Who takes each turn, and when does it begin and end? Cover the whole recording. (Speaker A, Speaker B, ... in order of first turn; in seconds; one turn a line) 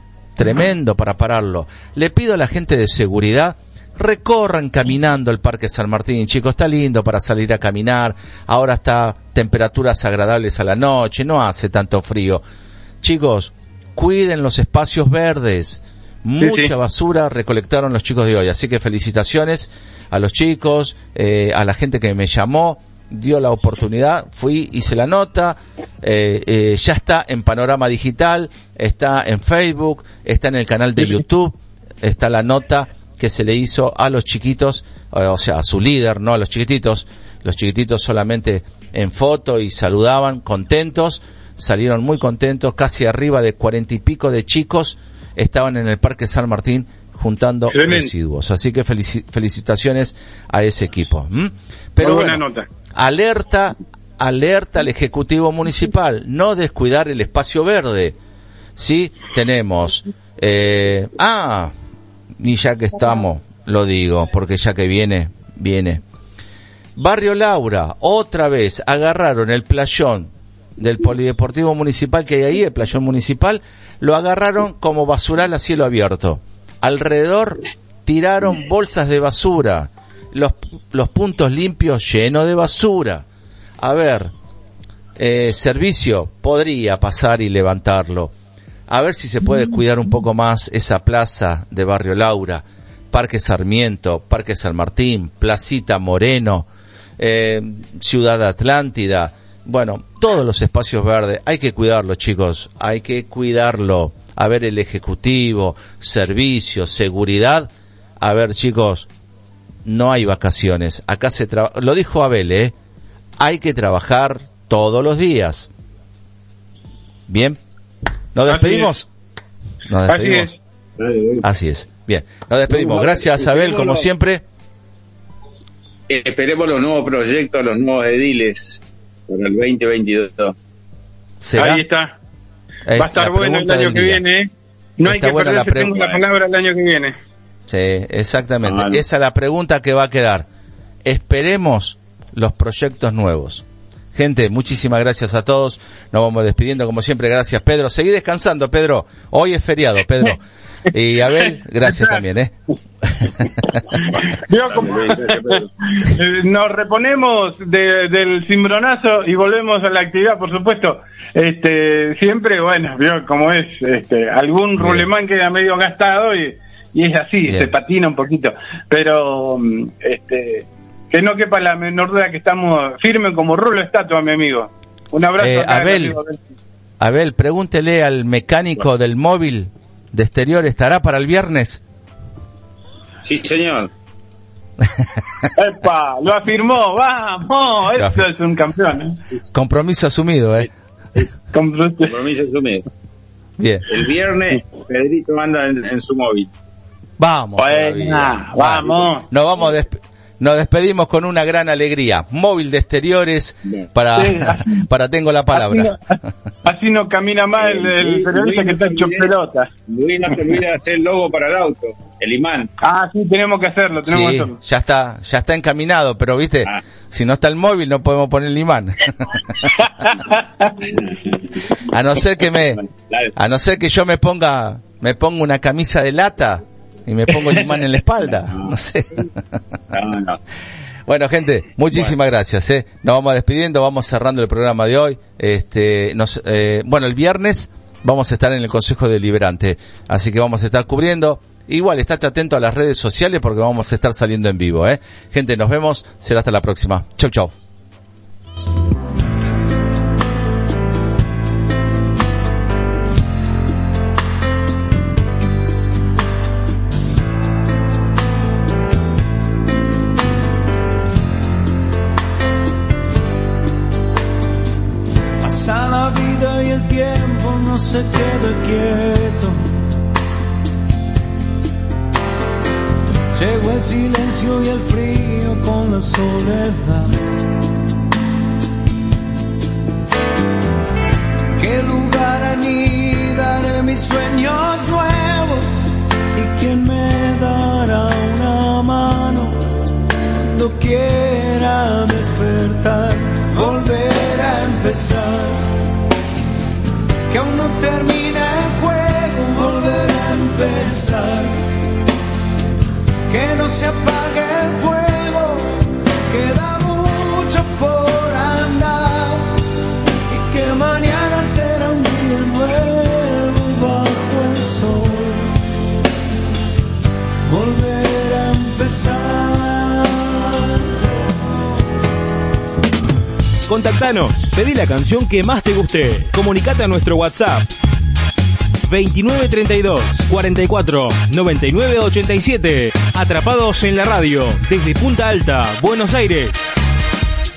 Speaker A: 0.4-12.4
Speaker A: 13.0-52.4
Speaker B: 16.4-16.7
Speaker B: 47.7-48.1
Speaker B: 52.0-52.6
Speaker A: 52.9-58.1
Speaker A: 58.8-61.7
Speaker A: 62.4-66.0
Speaker A: 67.0-83.2
Speaker A: 83.8-84.3
Speaker A: 85.2-88.3
Speaker A: 88.9-96.7
Speaker A: 97.2-107.7
Speaker A: 108.2-109.1
Speaker A: 109.8-112.7
Speaker A: 113.4-115.7
Speaker A: 117.3-117.6
Speaker A: 118.3-119.1
Speaker B: 118.5-118.9
Speaker A: 119.9-120.5
Speaker B: 120.1-120.6
Speaker C: 121.0-121.4
Speaker A: 121.4-124.4
Speaker C: 122.7-124.0
Speaker C: 126.1-130.6
Speaker A: 131.4-131.8
Speaker B: 131.6-132.1
Speaker A: 132.9-134.2
Speaker B: 132.9-137.1
Speaker A: 135.0-135.9
Speaker C: 135.9-136.2
Speaker A: 137.7-140.5
Speaker C: 138.6-139.0
Speaker A: 141.0-143.6
Speaker A: 144.1-152.5
Speaker B: 151.8-152.2
Speaker B: 153.9-176.4
Speaker C: 154.5-155.7
Speaker A: 164.8-165.0
Speaker A: 175.4-176.2
Speaker A: 177.0-181.8
Speaker C: 183.2-183.9
Speaker B: 185.5-189.2
Speaker A: 187.9-188.2
Speaker A: 189.5-190.7
Speaker B: 191.5-192.1
Speaker C: 192.0-192.8
Speaker A: 193.6-193.8
Speaker C: 193.9-196.5
Speaker A: 197.2-205.9
Speaker C: 197.6-197.8
Speaker B: 197.7-199.2
Speaker B: 204.1-204.8
Speaker B: 205.5-206.0
Speaker B: 206.6-209.7
Speaker C: 207.6-209.3
Speaker C: 209.9-212.7
Speaker B: 212.8-214.5
Speaker A: 214.0-219.7
Speaker B: 219.8-220.7
Speaker C: 220.8-221.6
Speaker A: 221.9-222.8
Speaker C: 222.6-223.3
Speaker A: 223.3-229.3
Speaker C: 229.9-230.4
Speaker A: 231.1-247.5
Speaker D: 265.4-269.9
Speaker D: 273.3-277.1
Speaker D: 281.6-289.8
Speaker D: 290.5-295.7
Speaker D: 297.3-301.6
Speaker D: 303.3-309.5
Speaker D: 310.3-315.5
Speaker D: 317.5-320.7
Speaker E: 323.6-327.7
Speaker E: 328.9-336.6